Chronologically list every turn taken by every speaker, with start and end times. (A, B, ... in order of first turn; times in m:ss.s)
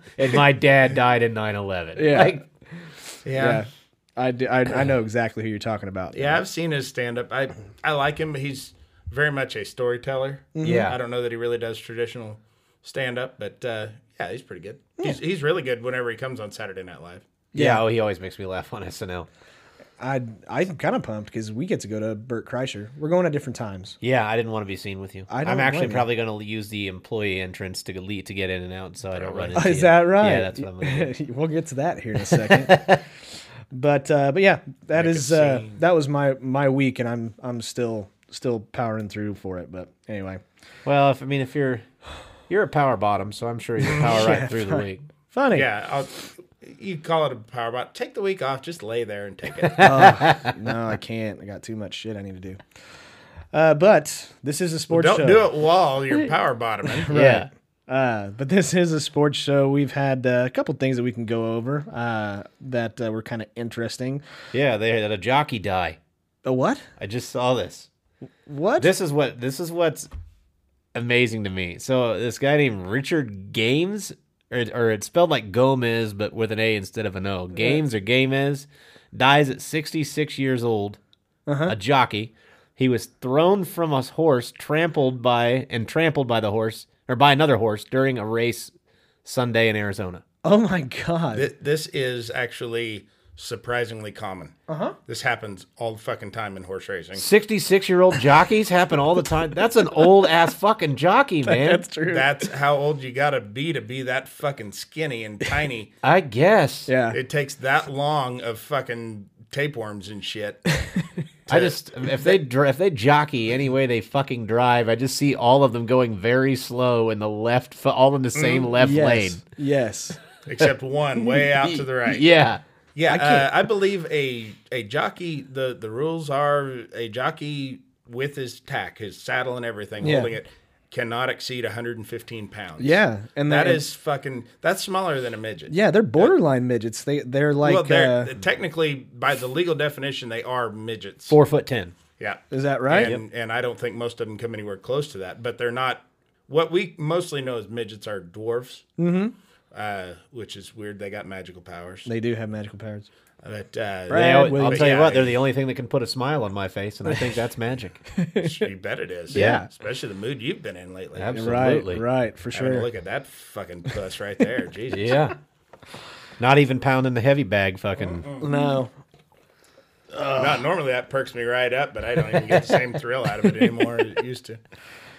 0:00.2-0:02.4 A
0:02.0-0:06.4 B
0:03.2-0:03.6 C
0:06.1-0:17.2 C
0:10.5-0:10.9 B
0:10.6-0:11.0 A
0:17.5-0:17.8 B
0:17.5-0:19.3 A
0:20.0-0:24.0 B
0:24.0-0:31.1 A
0:25.3-0:26.0 B
0:29.1-0:29.7 C
0:29.5-0:32.9 B
0:32.3-0:33.0 A
0:33.7-0:40.4 B
0:34.9-0:35.8 C
0:40.8-0:41.8 A
0:42.5-0:45.0 A
0:44.0-0:45.7 B
0:45.5-0:50.0 C
0:49.8-0:52.6 B
0:49.8-0:50.5 A
0:53.5-0:55.4 B
0:54.9-0:57.1 C
0:56.9-1:04.2 B
0:57.1-0:57.5 A
1:04.5-1:06.0 A
1:06.4-1:06.8 B
1:07.0-1:07.9 A
1:08.4-1:08.9 B
1:08.8-1:10.1 A
1:10.9-1:21.0 A
1:21.5-1:21.8 B
1:21.7-1:28.7 A
1:29.2-1:30.2 A
1:30.4-1:31.5 B
1:31.3-1:34.5 C
1:34.7-1:35.0 B
1:35.1-1:37.2 C
1:37.2-1:41.8 A
1:41.4-1:42.4 B
1:42.1-1:45.9 C
1:46.0-1:46.9 A
1:46.9-1:47.2 B
1:47.1-1:50.6 C
1:51.5-1:52.4 C
1:51.5-1:59.4 A
1:58.3-1:58.7 C
1:58.7-2:00.2 B
2:00.5-2:02.2 C
2:01.2-2:02.6 A
2:02.9-2:16.3 C
2:03.1-2:03.5 B
2:10.0-2:10.3 B
2:12.8-2:13.8 B
2:15.7-2:18.3 B
2:17.6-2:21.4 C
2:21.3-2:21.9 A
2:22.2-2:28.8 C
2:22.5-2:23.1 B
2:29.0-2:29.3 B
2:29.7-2:32.1 C
2:32.0-2:33.1 B
2:33.4-2:35.4 C
2:34.1-2:35.0 B
2:34.1-2:38.0 A
2:37.1-2:37.4 B
2:38.1-2:38.7 B
2:38.4-2:41.6 C
2:39.3-2:39.7 B
2:39.3-2:39.6 A
2:41.1-2:42.0 A
2:41.3-2:42.9 B
2:42.5-2:45.2 C
2:44.9-2:45.4 A
2:46.4-2:48.2 A
2:48.0-2:48.5 C
2:48.4-2:48.9 B
2:50.1-2:50.6 B
2:50.3-2:54.6 C